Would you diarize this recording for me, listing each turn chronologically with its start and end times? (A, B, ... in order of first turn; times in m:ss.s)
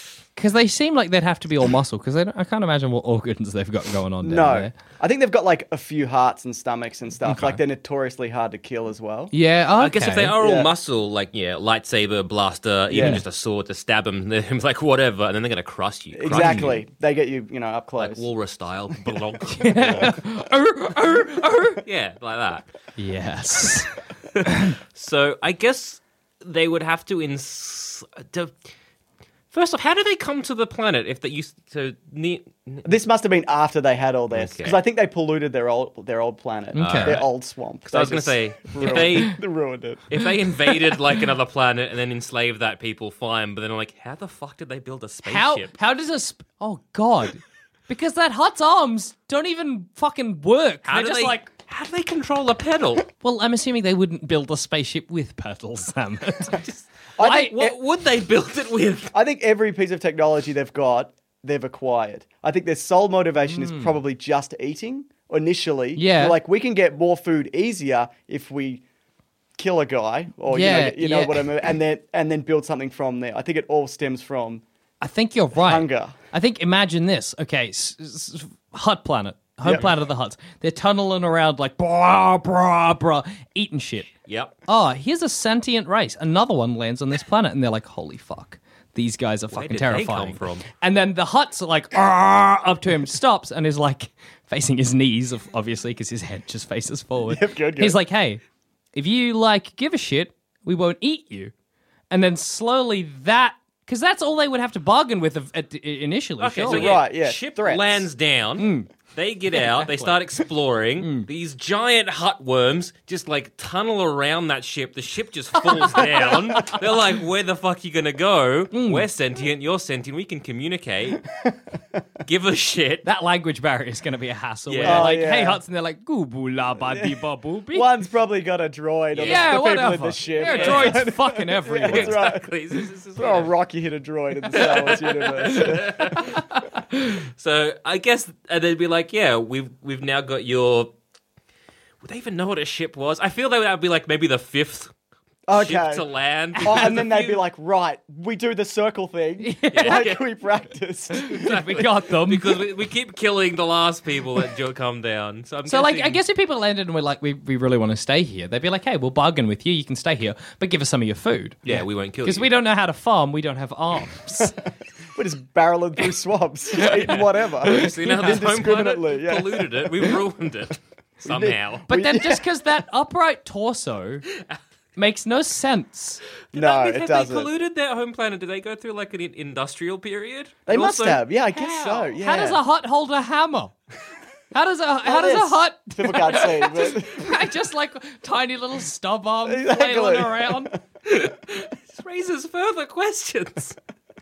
0:00.3-0:04.7 A
0:04.2-0:09.3 B
0:07.2-0:07.6 A
0:09.3-0:10.3 A
0:09.8-0:16.8 C
0:10.4-0:10.7 B
0:12.9-0:13.2 B
0:16.1-0:18.2 B
0:16.3-0:16.7 A
0:18.0-0:20.1 C
0:19.5-0:21.8 A
0:21.8-0:22.7 C
0:23.0-0:23.9 A
0:24.4-0:24.7 A
0:24.9-0:28.6 C
0:29.5-0:32.9 C
0:32.8-0:40.0 B
0:34.3-0:34.8 C
0:36.7-0:37.2 A
0:36.8-0:37.3 C
0:37.8-0:39.4 C
0:38.8-0:39.3 A
0:40.1-0:45.8 C
0:45.2-0:51.5 A
0:50.8-0:53.1 C
0:53.2-0:57.5 A
0:56.7-0:59.1 C
0:57.2-0:57.8 B
0:59.1-1:08.8 B
1:03.5-1:03.9 A
1:06.0-1:06.4 A
1:09.6-1:14.6 B
1:10.5-1:11.4 A
1:15.0-1:24.1 A
1:15.6-1:16.2 B
1:19.6-1:19.9 B
1:24.3-1:24.5 C
1:24.7-1:38.4 A
1:29.5-1:30.7 C
1:37.3-1:38.0 B
1:38.9-1:41.5 A
1:42.1-1:47.0 A
1:46.4-2:01.2 C
1:46.6-1:48.1 B
1:48.6-1:48.9 A
1:49.6-1:50.2 A
1:51.0-1:51.3 A
1:56.0-1:56.3 A
1:58.7-1:59.0 A
2:01.5-2:02.0 B
2:02.2-2:03.0 C
2:03.0-2:07.9 A
2:04.7-2:05.1 C
2:04.8-2:05.6 B
2:06.8-2:12.5 B
2:09.1-2:09.6 C
2:09.2-2:12.2 A
2:10.4-2:11.0 C
2:11.9-2:13.5 C
2:13.2-2:16.2 B
2:14.5-2:16.5 C
2:16.5-2:17.2 A
2:17.4-2:20.9 C
2:22.0-2:24.9 C
2:25.5-2:26.0 B
2:25.5-2:27.4 C
2:26.6-2:27.0 A
2:26.6-2:31.5 B
2:29.4-2:30.1 A
2:29.7-2:30.2 C
2:31.2-2:32.5 A
2:31.3-2:36.2 C
2:35.7-2:44.6 A
2:41.6-2:42.5 C
2:45.1-2:50.2 B
2:47.6-2:48.4 A
2:47.6-2:51.8 C
2:51.2-2:52.4 B
2:51.9-2:54.2 A
2:55.0-2:56.2 A
2:56.5-2:57.5 B
2:56.5-3:02.1 C
3:00.7-3:02.6 B
3:02.2-3:03.7 A
3:04.5-3:10.7 A
3:05.0-3:07.3 B
3:09.4-3:10.7 B
3:11.0-3:13.8 C